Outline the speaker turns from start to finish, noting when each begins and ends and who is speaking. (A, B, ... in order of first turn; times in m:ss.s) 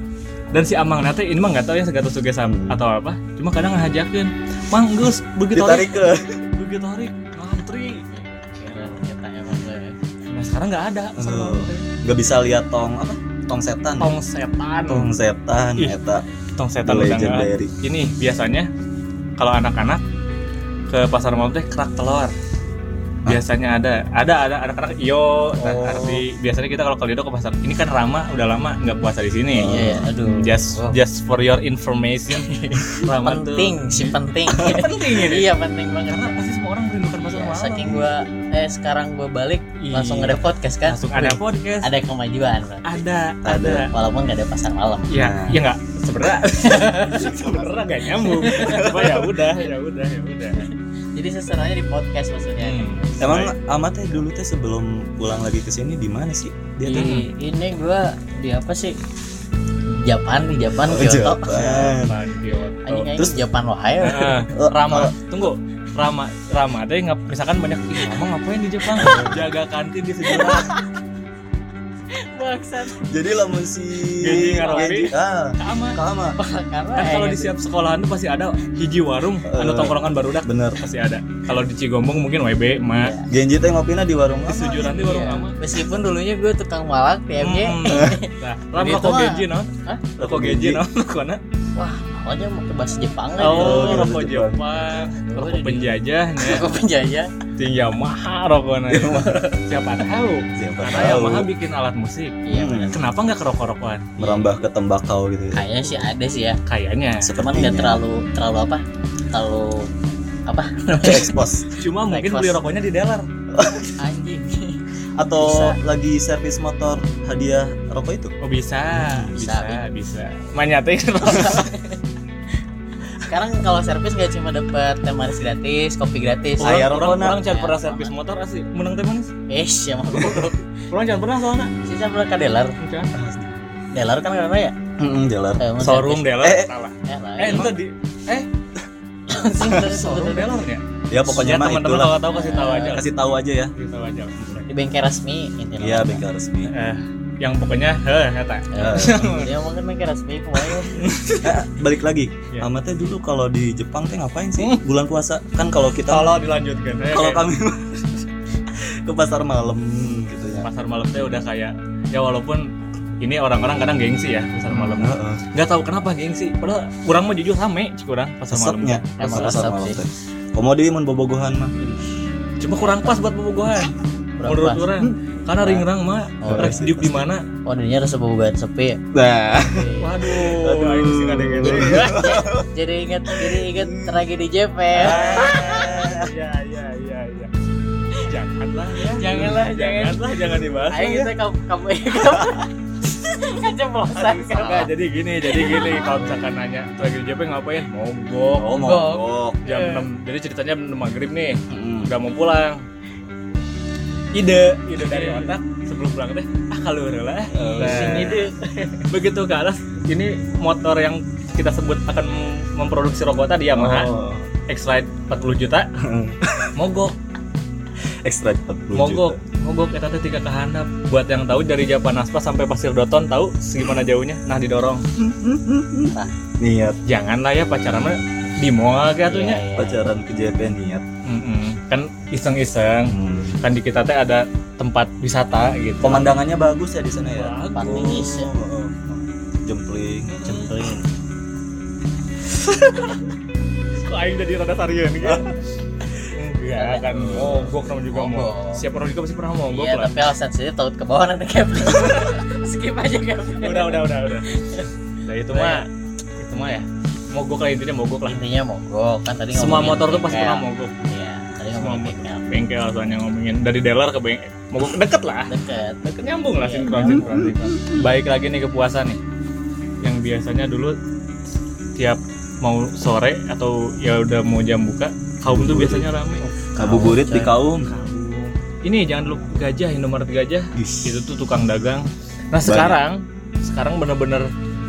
0:00.5-0:06.0 A
0:02.4-0:02.8 B
0:05.5-0:06.4 B
0:06.5-0:08.0 A
0:08.1-0:09.9 C
0:10.3-0:11.9 A
0:11.2-0:14.2 B
0:14.0-0:15.1 A
0:14.9-0:16.2 B
0:16.6-0:18.7 A
0:16.8-0:17.7 B
0:19.4-0:20.0 A
0:20.9-0:22.3 A
0:23.2-0:35.5 A
0:25.6-0:26.2 B
0:29.5-0:30.1 B
0:29.6-0:30.9 C
0:32.3-0:36.4 C
0:36.1-0:38.0 A
0:37.2-0:43.0 C
0:37.8-0:38.4 B
0:39.8-0:41.9 A
0:42.8-0:43.9 A
0:43.4-0:43.9 B
0:43.7-0:45.1 C
0:45.1-0:50.7 A
0:45.1-0:45.6 B
0:46.6-0:47.6 C
0:48.2-0:49.1 C
0:48.6-0:49.1 B
0:50.5-0:53.4 C
0:52.6-0:53.5 A
0:53.2-0:57.1 B
0:56.8-0:59.0 C
0:56.9-0:57.3 A
0:59.9-1:01.9 C
1:00.8-1:02.2 B
1:01.9-1:03.1 A
1:02.8-1:04.4 C
1:04.0-1:10.7 A
1:04.5-1:05.1 B
1:08.9-1:09.4 C
1:10.3-1:10.8 C
1:12.1-1:13.2 C
1:13.1-1:16.4 B
1:14.2-1:16.0 A
1:14.3-1:15.1 C
1:16.4-1:17.6 C
1:16.9-1:23.1 A
1:19.5-1:20.8 B
1:22.9-1:23.2 C
1:23.3-1:25.1 B
1:24.4-1:25.6 A
1:24.9-1:30.0 C
1:27.4-1:31.4 A
1:27.9-1:28.1 B
1:30.2-1:30.8 B
1:31.8-1:34.1 C
1:33.4-1:36.6 A
1:33.5-1:34.7 B
1:35.1-1:37.3 C
1:37.6-1:42.4 A
1:38.9-1:39.4 B
1:40.6-1:41.5 B
1:42.4-1:43.0 C
1:42.5-1:42.9 B
1:42.9-1:44.2 A
1:44.2-1:45.6 B
1:45.5-1:46.6 C
1:46.7-1:47.3 A
1:47.2-1:48.0 B
1:47.3-1:49.9 C
1:50.4-1:51.5 C
1:51.0-1:51.7 B
1:51.8-1:53.2 A
1:52.0-1:52.6 C
1:53.5-1:53.9 B
1:54.0-1:54.8 C
1:55.2-1:58.3 B
1:55.4-1:55.8 C
1:58.4-2:01.7 A
1:59.0-1:59.3 B
1:59.3-1:59.9 C
2:01.2-2:02.0 C
2:03.2-2:08.1 C
2:06.6-2:07.4 B
2:06.6-2:09.3 A
2:09.5-2:10.6 C
2:10.9-2:11.7 A
2:11.8-2:12.8 C
2:12.8-2:13.1 A
2:13.1-2:13.5 B
2:13.9-2:14.7 C
2:15.0-2:15.6 B
2:15.6-2:16.3 C
2:15.8-2:18.5 A
2:16.4-2:16.7 B
2:17.0-2:17.7 C
2:19.3-2:20.5 C
2:19.4-2:23.1 A
2:21.1-2:22.2 B
2:22.2-2:23.0 C
2:22.8-2:23.7 B
2:23.8-2:24.7 A
2:24.7-2:26.2 C
2:25.8-2:26.7 B
2:26.7-2:29.5 A
2:28.7-2:31.1 C
2:28.8-2:29.3 B
2:31.0-2:31.6 A
2:31.4-2:36.3 B
2:36.1-2:37.4 A
2:37.1-2:40.7 B
2:40.6-2:42.7 A
2:43.2-2:49.6 A
2:44.7-2:45.4 B
2:48.5-2:51.8 B
2:49.2-2:50.0 C
2:52.6-2:53.9 A
2:52.8-2:53.2 C
2:54.4-2:54.9 C
2:54.4-2:57.4 A
2:56.4-2:56.8 C
2:56.4-2:57.3 B
2:57.6-2:59.0 C
2:59.1-3:02.6 B
2:59.6-3:00.2 C
3:00.0-3:02.3 A
3:01.6-3:06.1 C
3:03.3-3:04.2 B
3:05.0-3:07.5 A
3:05.0-3:06.3 B
3:08.2-3:11.3 A
3:09.1-3:10.3 C
3:10.9-3:14.9 C
3:12.2-3:12.5 B
3:14.1-3:18.7 A
3:15.5-3:16.4 C
3:18.5-3:19.6 B
3:18.7-3:20.1 C
3:19.6-3:22.8 A
3:21.7-3:22.1 B
3:24.3-3:34.1 A
3:25.0-3:25.6 C
3:27.5-3:28.4 B
3:27.5-3:28.5 C
3:33.7-3:34.5 B
3:34.7-3:35.9 A
3:36.0-3:36.7 B
3:36.8-3:37.1 A
3:38.2-3:39.3 B
3:38.9-3:45.0 A
3:45.2-3:47.0 B
3:47.1-3:49.6 A
3:49.3-3:50.1 C
3:49.8-3:51.0 B
3:51.2-3:56.3 A
3:53.1-3:53.6 B
3:56.0-4:00.7 B
3:57.3-3:58.3 A
3:57.7-3:58.5 C
4:00.3-4:00.6 A
4:00.4-4:01.1 C
4:02.6-4:03.2 A
4:03.9-4:05.4 A
4:06.3-4:10.3 A
4:06.7-4:08.8 C
4:07.2-4:07.7 B
4:09.7-4:14.9 C
4:11.9-4:12.2 A
4:13.6-4:14.4 A
4:15.2-4:15.8 A
4:15.5-4:15.9 C
4:16.4-4:18.4 A
4:18.3-4:22.4 C
4:19.5-4:21.0 A
4:21.7-4:25.5 A
4:25.5-4:27.6 C
4:26.0-4:29.2 A
4:26.9-4:28.0 B
4:30.0-4:31.0 A
4:32.0-4:36.4 A
4:35.4-4:36.1 B
4:36.7-4:37.5 C
4:36.8-4:37.9 B
4:37.9-4:44.5 A
4:40.7-4:41.2 B
4:42.6-4:43.0 B